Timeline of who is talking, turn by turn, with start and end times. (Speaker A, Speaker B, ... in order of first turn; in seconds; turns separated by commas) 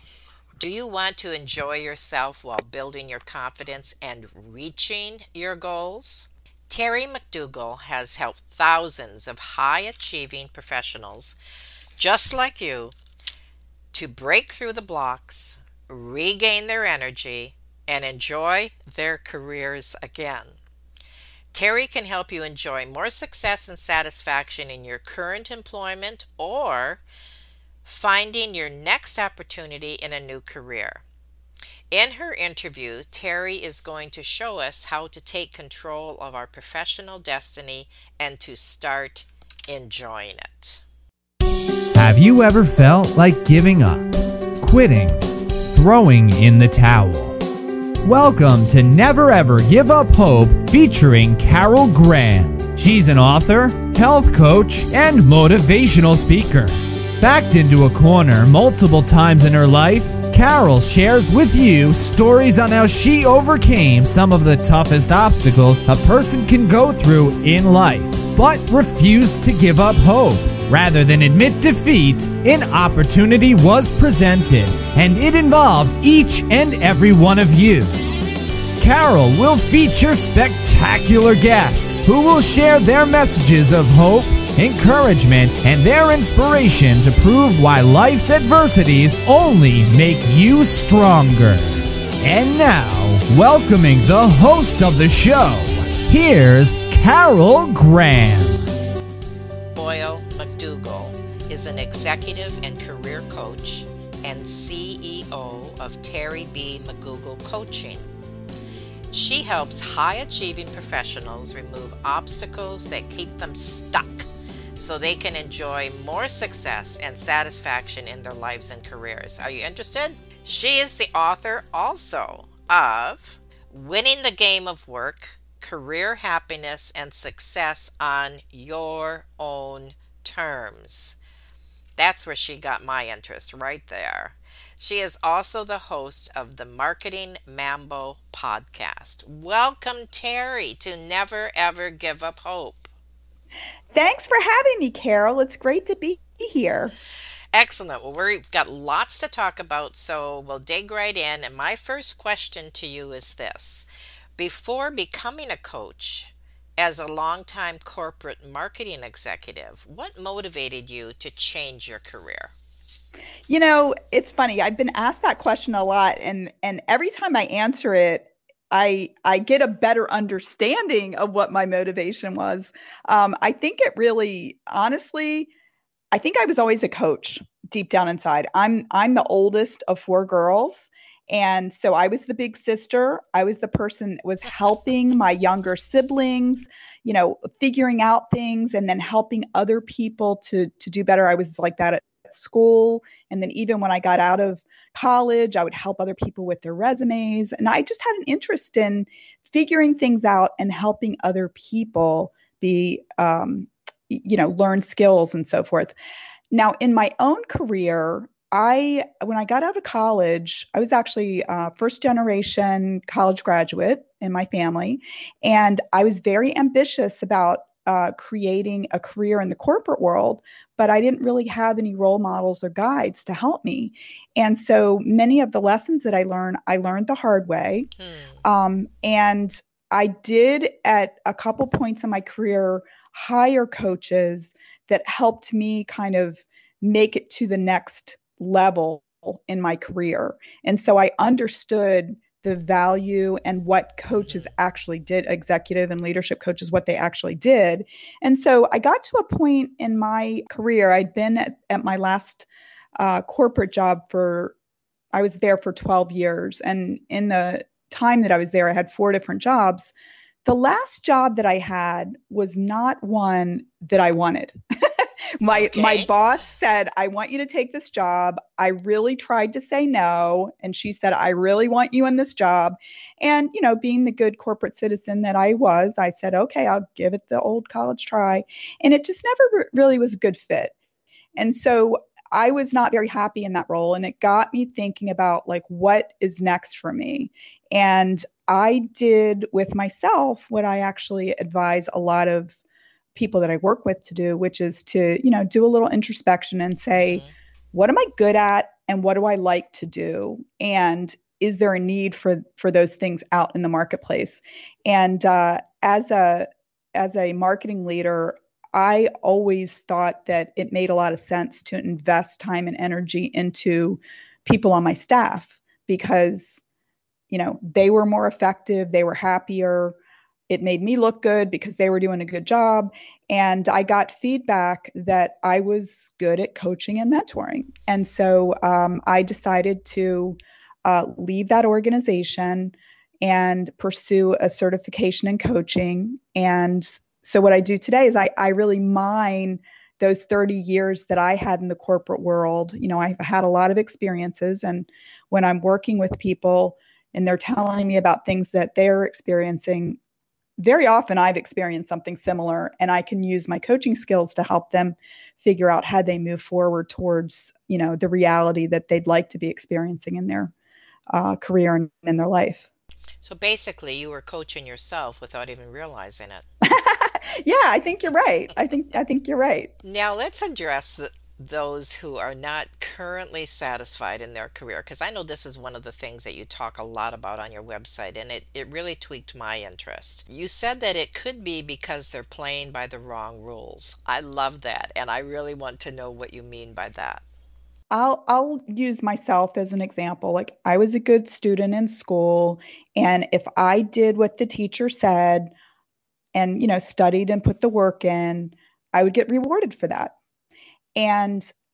Speaker A: 0.6-11.3, Speaker A: 12.0-12.9, Speaker A: 13.9-20.6, Speaker A: 21.5-27.0, Speaker A: 27.8-31.0, Speaker A: 31.9-40.8, Speaker B: 41.9-47.4, Speaker B: 48.0-77.9, Speaker B: 78.8-98.6, Speaker A: 99.7-108.1, Speaker A: 109.1-131.2, Speaker A: 132.0-142.9, Speaker C: 143.9-146.9, Speaker A: 147.5-162.5, Speaker C: 163.5-175.5, Speaker C: 176.1-205.9, Speaker C: 206.5-227.9, Speaker A: 228.0-228.4, Speaker C: 228.4-252.4, Speaker C: 253.0-254.5, Speaker C: 255.1-259.9, Speaker C: 260.4-280.7, Speaker A: 265.5-266.1, Speaker C: 281.4-292.6, Speaker C: 293.1-316.6, Speaker A: 296.9-297.3, Speaker C: 317.3-320.0, Speaker C: 320.5-350.0, Speaker C: 350.6-360.5, Speaker C: 361.1-362.6, Speaker A: 363.2-366.4, Speaker C: 366.6-369.7, Speaker A: 369.8-387.2, Speaker C: 387.9-395.5, Speaker C: 396.3-400.1, Speaker C: 400.9-401.5